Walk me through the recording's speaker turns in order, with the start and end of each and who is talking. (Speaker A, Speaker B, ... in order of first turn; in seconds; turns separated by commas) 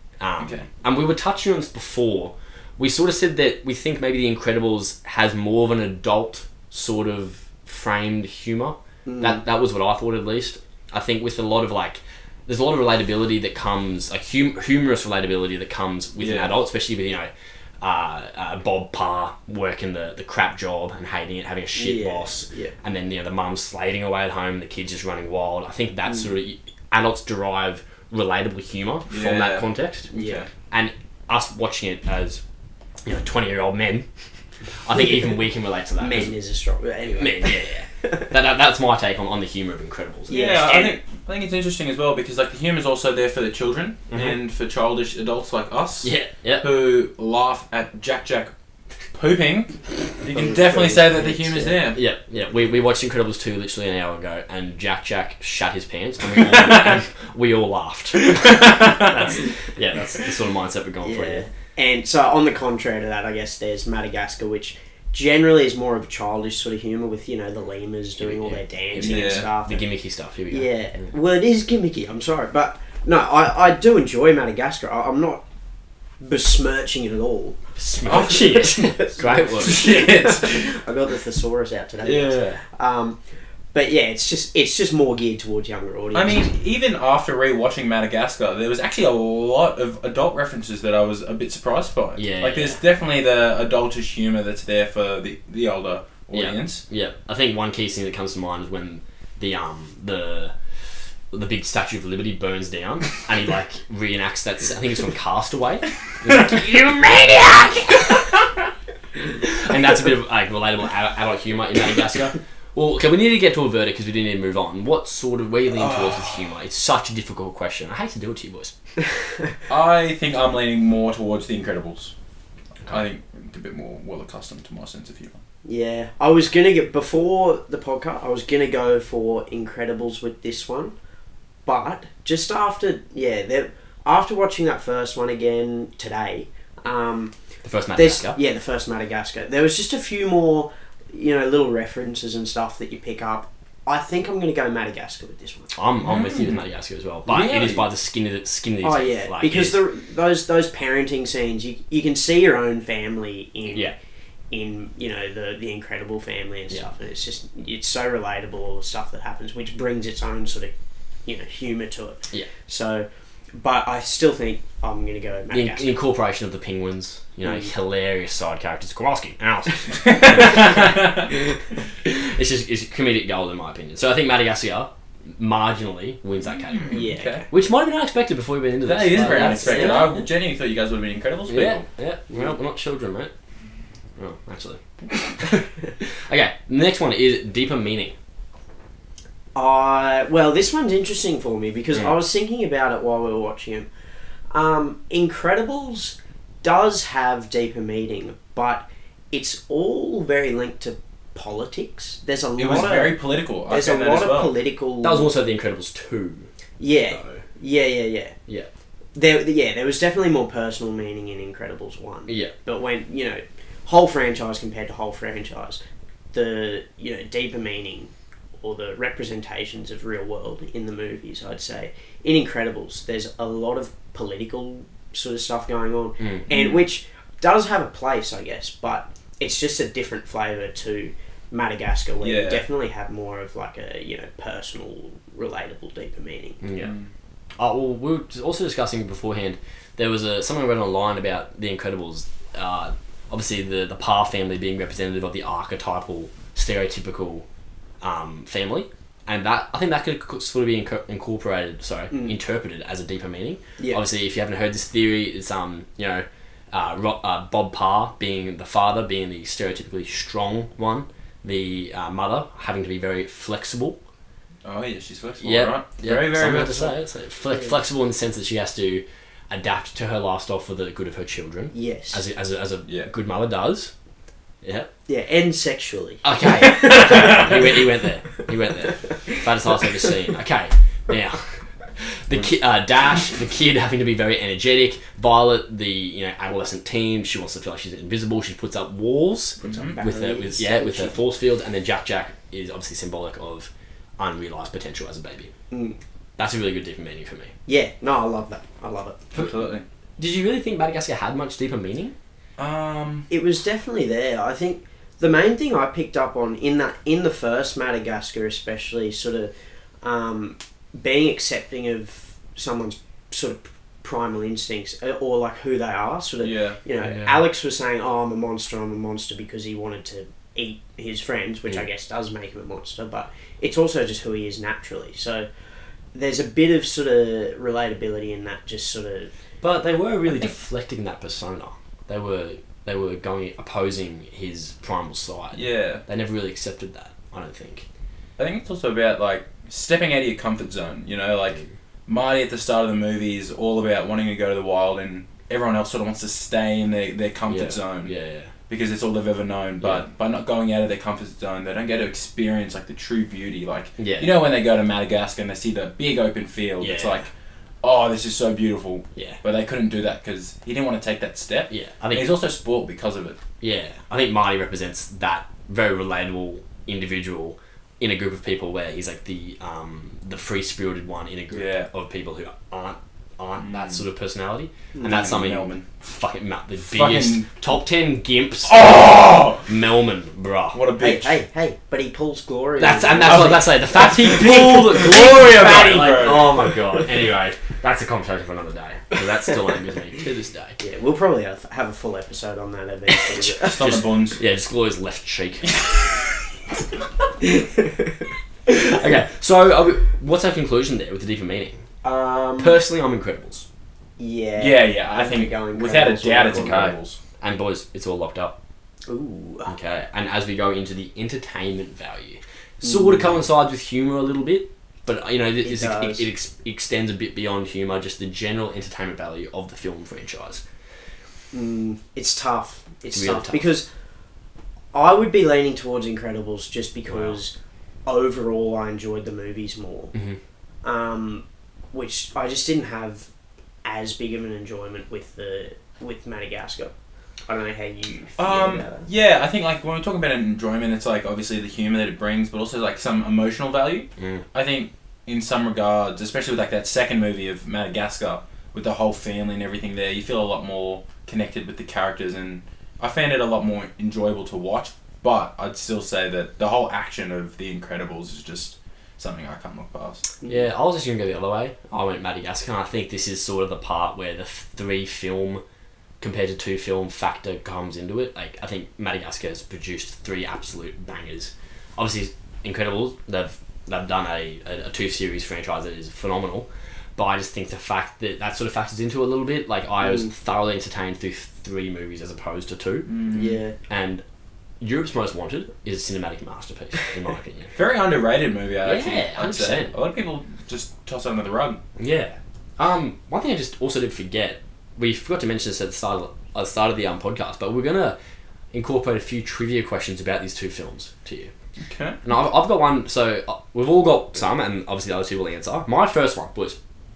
Speaker A: 0.2-30.1, Speaker B: 0.4-0.7, Speaker C: 9.1-9.4, Speaker B: 16.2-16.5, Speaker C: 21.8-22.8, Speaker B: 29.1-30.5, Speaker C: 30.1-30.4, Speaker A: 30.7-32.4, Speaker A: 33.0-34.1, Speaker A: 34.9-36.3, Speaker C: 36.0-38.3, Speaker A: 37.2-41.0, Speaker C: 40.3-41.0, Speaker B: 40.3-48.5, Speaker A: 46.0-46.7, Speaker B: 49.1-52.0, Speaker C: 50.3-51.8, Speaker A: 52.0-61.5, Speaker B: 56.5-57.0, Speaker B: 58.2-59.1, Speaker C: 61.0-69.9, Speaker A: 68.2-71.0, Speaker B: 69.0-69.5, Speaker C: 70.5-75.4, Speaker C: 76.2-83.2, Speaker A: 77.8-79.9, Speaker B: 78.1-80.8, Speaker B: 82.1-82.5, Speaker A: 82.1-82.6, Speaker C: 83.7-86.5, Speaker B: 86.1-96.8, Speaker A: 92.2-92.8, Speaker A: 96.3-100.5, Speaker A: 101.3-108.5, Speaker A: 109.3-118.7, Speaker B: 115.7-116.5, Speaker B: 119.7-122.1, Speaker B: 122.9-125.4, Speaker C: 125.7-130.9, Speaker C: 131.7-137.3, Speaker A: 137.6-138.4, Speaker C: 137.9-145.7, Speaker A: 145.8-149.8, Speaker B: 146.0-146.6, Speaker B: 147.3-147.9, Speaker C: 148.8-153.9, Speaker C: 154.5-160.7, Speaker C: 161.3-165.9, Speaker A: 165.5-171.2, Speaker C: 167.4-167.7, Speaker B: 169.9-171.3, Speaker A: 172.0-180.3, Speaker B: 176.5-177.5, Speaker C: 176.9-177.5, Speaker B: 178.8-181.8, Speaker C: 179.2-180.1, Speaker A: 181.5-183.3, Speaker A: 184.2-188.2, Speaker C: 189.6-193.9, Speaker C: 194.5-205.3, Speaker B: 202.6-204.6, Speaker A: 205.0-206.5, Speaker C: 206.8-208.3, Speaker A: 207.1-207.4, Speaker C: 209.2-215.8, Speaker A: 212.3-212.5, Speaker C: 216.3-236.6, Speaker A: 226.2-226.5, Speaker B: 226.5-226.8, Speaker B: 232.2-232.7, Speaker A: 236.6-236.9, Speaker B: 236.8-237.1, Speaker A: 237.6-247.5, Speaker A: 248.0-264.0, Speaker C: 252.1-252.4, Speaker C: 253.8-254.0, Speaker B: 264.6-267.0, Speaker A: 265.4-273.9, Speaker C: 271.7-272.2, Speaker A: 274.6-274.9, Speaker C: 275.1-277.9, Speaker A: 276.2-281.5, Speaker C: 278.9-279.4, Speaker A: 282.0-295.5, Speaker B: 289.6-290.0, Speaker C: 289.7-291.2, Speaker C: 295.7-296.0, Speaker A: 296.4-297.5, Speaker C: 297.7-299.5, Speaker B: 299.3-299.8, Speaker A: 300.2-302.1, Speaker B: 302.6-303.3, Speaker C: 303.3-325.5, Speaker B: 316.4-316.8, Speaker A: 317.0-317.4, Speaker C: 326.1-329.3, Speaker A: 329.6-337.9, Speaker B: 335.5-336.0, Speaker B: 338.4-348.1, Speaker A: 347.5-348.5, Speaker B: 348.7-357.3, Speaker A: 349.8-350.1, Speaker A: 354.0-354.4, Speaker A: 356.8-357.3, Speaker B: 357.8-363.4, Speaker A: 359.2-359.4, Speaker A: 361.7-362.3, Speaker A: 363.6-379.1, Speaker B: 371.5-371.9, Speaker B: 373.6-374.0, Speaker C: 374.9-375.4, Speaker B: 375.0-375.9, Speaker B: 376.8-377.5, Speaker B: 378.6-379.7, Speaker A: 379.6-380.8, Speaker B: 380.7-381.4, Speaker C: 381.0-384.3, Speaker A: 382.8-390.8, Speaker B: 383.2-386.7, Speaker C: 390.8-393.8, Speaker A: 393.1-395.8, Speaker B: 393.6-394.4, Speaker B: 395.7-396.2, Speaker C: 397.6-398.1, Speaker A: 398.7-401.8, Speaker C: 402.0-402.8, Speaker A: 402.6-403.7, Speaker C: 404.2-406.9, Speaker B: 404.6-407.2, Speaker A: 406.5-408.6, Speaker C: 409.1-409.7, Speaker A: 409.7-420.6, Speaker C: 412.8-413.3, Speaker C: 415.6-416.3, Speaker C: 421.5-423.9, Speaker A: 423.1-423.7, Speaker C: 424.9-427.5, Speaker A: 427.1-427.4, Speaker C: 428.1-430.1, Speaker A: 430.1-430.4, Speaker C: 430.8-433.3, Speaker C: 433.8-436.9, Speaker C: 437.5-439.1, Speaker B: 438.4-460.3, Speaker A: 444.2-444.4, Speaker A: 460.5-465.6, Speaker A: 466.2-483.1, Speaker C: 480.0-480.3, Speaker B: 483.1-483.6, Speaker C: 483.3-483.8, Speaker A: 483.9-484.2, Speaker A: 484.8-487.7, Speaker B: 487.8-491.8, Speaker A: 488.8-489.9, Speaker A: 492.0-498.2, Speaker A: 498.7-501.5, Speaker B: 501.8-502.2, Speaker A: 502.2-506.8